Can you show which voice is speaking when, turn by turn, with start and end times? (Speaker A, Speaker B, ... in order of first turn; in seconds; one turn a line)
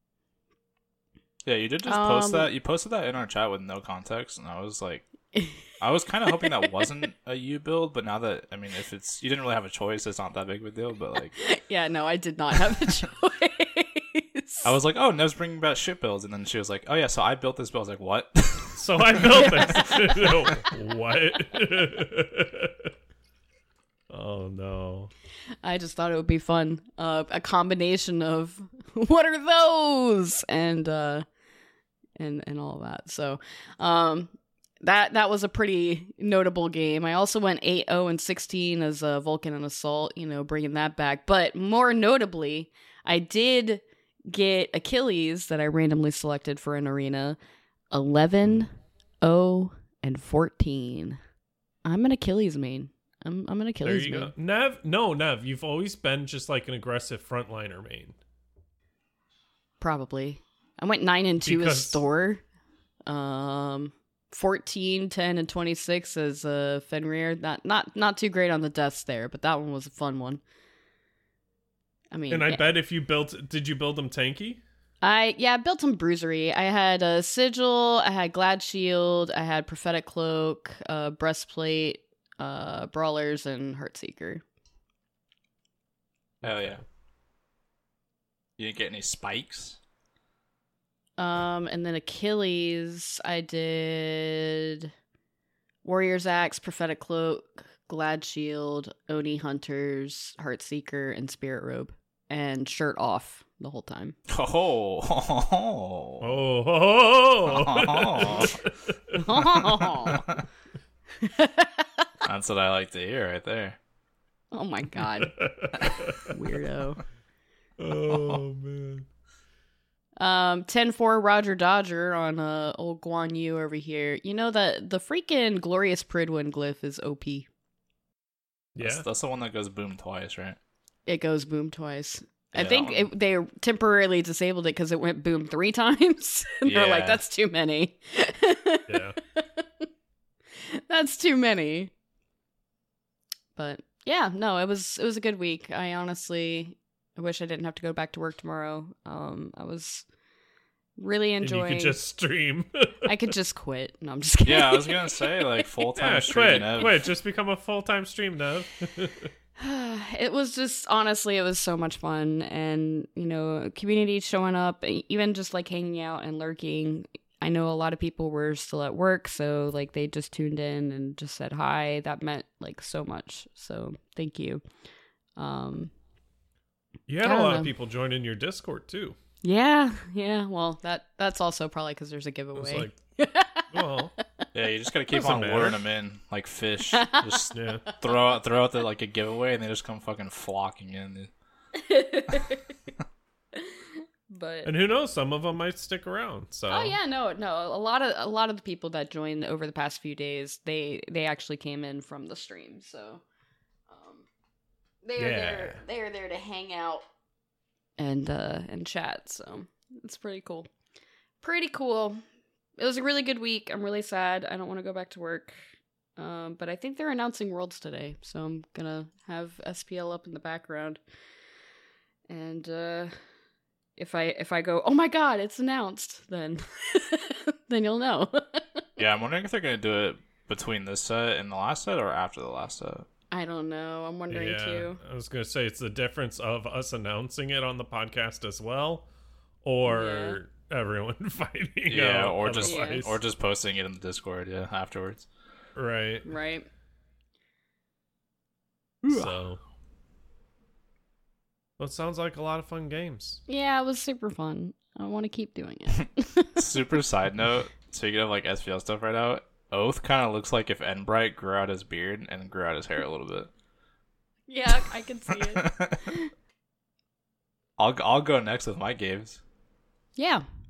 Speaker A: 1.4-5.1
Speaker B: 1.9-2.5
Speaker A: 5.8-11.3
Speaker B: 11.4-14.7
Speaker A: 14.6-19.6
Speaker C: 18.7-22.9
Speaker B: 19.6-20.2
Speaker C: 24.1-25.1
Speaker B: 25.6-31.2
Speaker B: 32.2-47.4
Speaker B: 47.9-51.2
Speaker B: 51.8-54.3
Speaker C: 53.8-58.1
Speaker B: 59.8-62.4
Speaker C: 61.4-62.0
Speaker B: 63.1-70.4
Speaker B: 72.1-72.6
Speaker C: 72.3-74.6
Speaker B: 75.0-84.4
Speaker C: 86.4-86.8
Speaker A: 86.4-86.8
Speaker A: 88.6-89.8
Speaker B: 91.2-94.9
Speaker B: 95.8-104.1
Speaker A: 104.3-106.4
Speaker C: 106.2-109.5
Speaker A: 107.5-108.6
Speaker B: 109.1-110.3
Speaker A: 109.5-110.4
Speaker B: 111.2-112.1
Speaker A: 112.2-113.8
Speaker B: 114.5-117.0
Speaker C: 115.0-116.3
Speaker C: 117.8-119.0
Speaker A: 118.0-118.4
Speaker B: 120.2-127.5
Speaker C: 128.8-129.1
Speaker A: 128.8-130.6
Speaker B: 131.1-139.7
Speaker A: 132.5-133.1
Speaker A: 136.6-137.2
Speaker C: 138.9-139.2
Speaker B: 140.6-141.9
Speaker B: 143.6-150.0
Speaker B: 151.0-152.0
Speaker C: 151.4-153.3
Speaker B: 153.0-155.3
Speaker A: 154.4-157.1
Speaker C: 155.9-159.3
Speaker B: 159.6-174.6
Speaker B: 175.4-175.9
Speaker C: 177.1-179.2
Speaker B: 177.2-177.7
Speaker B: 179.4-184.2
Speaker C: 182.5-183.0
Speaker C: 183.7-184.1
Speaker A: 184.5-191.3
Speaker C: 185.1-185.8
Speaker B: 186.9-188.0
Speaker C: 187.5-187.8
Speaker B: 191.7-192.7
Speaker B: 193.5-194.7
Speaker C: 194.6-197.0
Speaker B: 196.7-203.2
Speaker B: 203.9-204.2
Speaker B: 205.0-207.0
Speaker C: 205.2-205.8
Speaker B: 208.0-210.7
Speaker B: 211.4-212.2
Speaker B: 212.8-215.6
Speaker B: 216.2-221.0
Speaker B: 222.3-223.1
Speaker B: 224.0-228.8
Speaker A: 229.0-233.1
Speaker B: 233.3-235.0
Speaker C: 234.3-239.1
Speaker C: 239.6-243.2
Speaker B: 239.8-240.4
Speaker A: 241.9-245.3
Speaker B: 242.6-243.0
Speaker C: 245.7-246.3
Speaker B: 246.2-246.7
Speaker A: 249.0-249.3
Speaker C: 249.1-249.6
Speaker C: 251.8-253.4
Speaker B: 253.5-256.6
Speaker A: 256.6-263.5
Speaker B: 264.5-266.3
Speaker A: 265.3-266.1
Speaker A: 267.8-269.4
Speaker B: 270.2-270.4